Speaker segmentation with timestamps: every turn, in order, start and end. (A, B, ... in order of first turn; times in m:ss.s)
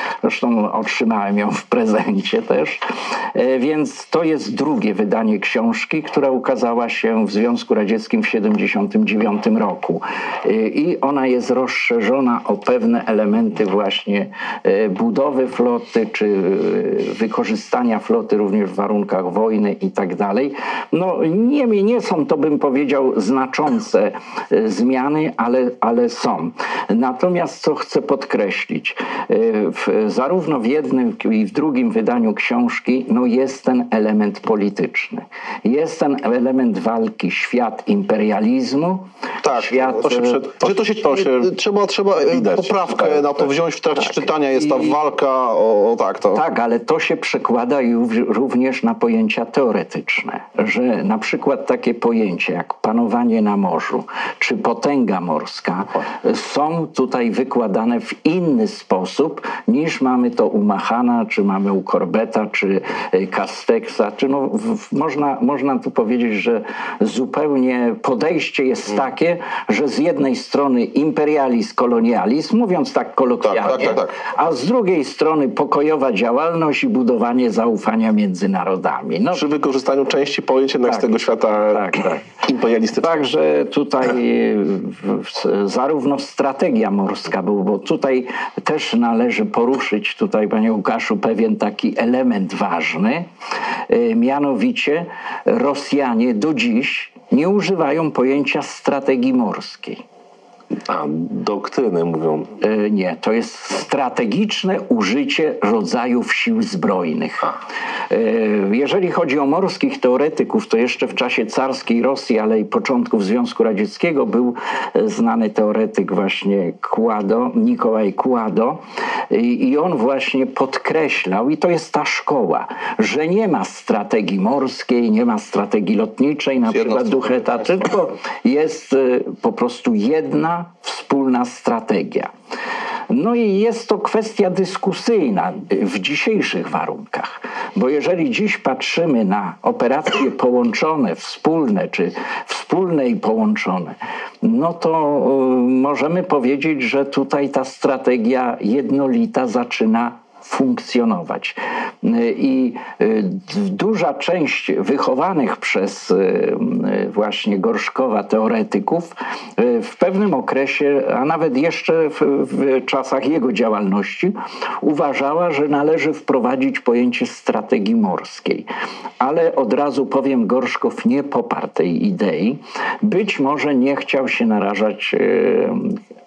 0:00.2-0:40.4 A
0:39.4-0:40.0 B
0:39.8-0:41.5 C
0:40.6-0:46.4 B
0:42.2-0:43.5 C
0:44.6-0:44.9 A
0:46.3-1:19.5 A
1:13.4-1:14.1 B
1:19.3-1:23.3 C
1:20.8-1:22.3 A
1:23.0-1:33.3 A
1:33.9-1:40.0 A
1:40.8-1:42.6 C
1:42.6-1:47.5 A
1:48.1-2:12.3 A
2:06.7-2:07.4 B
2:13.1-2:48.7 A
2:49.2-2:56.0 A